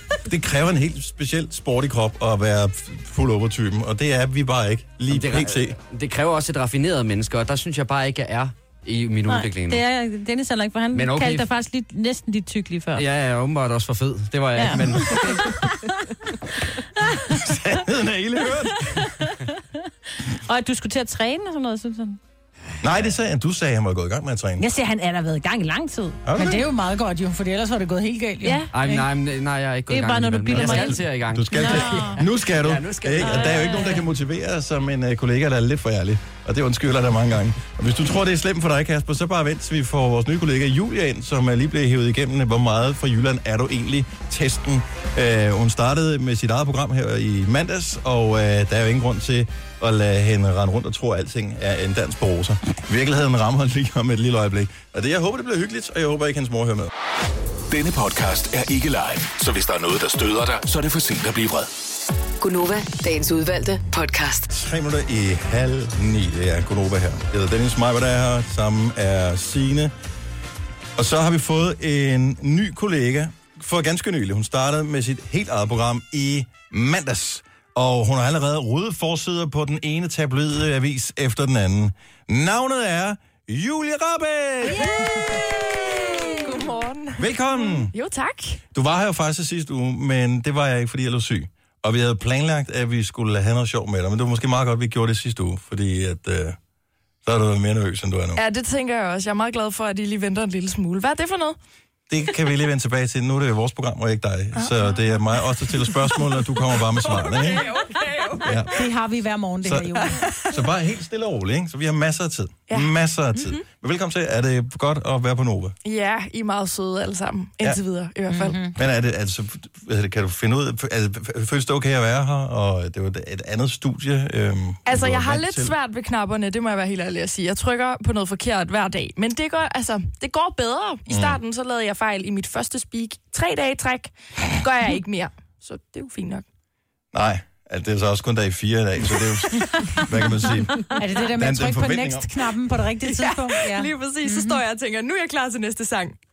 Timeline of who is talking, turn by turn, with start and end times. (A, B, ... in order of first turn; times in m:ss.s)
0:00.2-0:05.8 A
0:05.1-0:09.8 B
0:09.3-0:13.1 C
0:10.9-0:11.5 B
0:13.0-0:15.7 B
0:14.6-0:15.8 C
0:14.8-0:15.4 A
0:17.0-0:17.4 C
0:17.3-0:19.2 A
0:18.8-0:19.5 C
0:20.1-0:22.2 C
0:22.8-0:24.6 A
0:24.6-0:26.2 C
0:26.2-0:26.7 A
0:26.4-0:29.0 D
0:28.4-0:28.8 C
0:28.7-0:33.9 B
0:29.9-0:32.2 C
0:30.5-0:56.9 A
0:33.2-0:34.0 C
0:57.7-1:01.7 E
1:02.4-1:04.5 F
1:04.5-1:09.9 A
1:11.0-1:26.1 A
1:24.9-1:28.6 G
1:27.2-1:27.9 A
1:28.7-1:36.6 A
1:37.2-1:38.4 A
1:38.4-1:41.6 G
1:42.1-1:47.7 A
1:44.6-1:45.0 G
1:47.0-1:48.8 G
1:48.4-1:48.8 A
1:48.7-1:50.2 D
1:49.6-1:55.8 A
1:50.0-1:50.6 G
1:52.7-1:53.6 G
1:55.8-1:58.7 G
1:58.3-1:58.7 D
1:58.7-2:05.7 A
2:04.8-2:16.4 G
2:11.1-2:11.4 A
2:17.1-2:22.3 A
2:20.8-2:24.6 D
2:23.0-2:26.2 G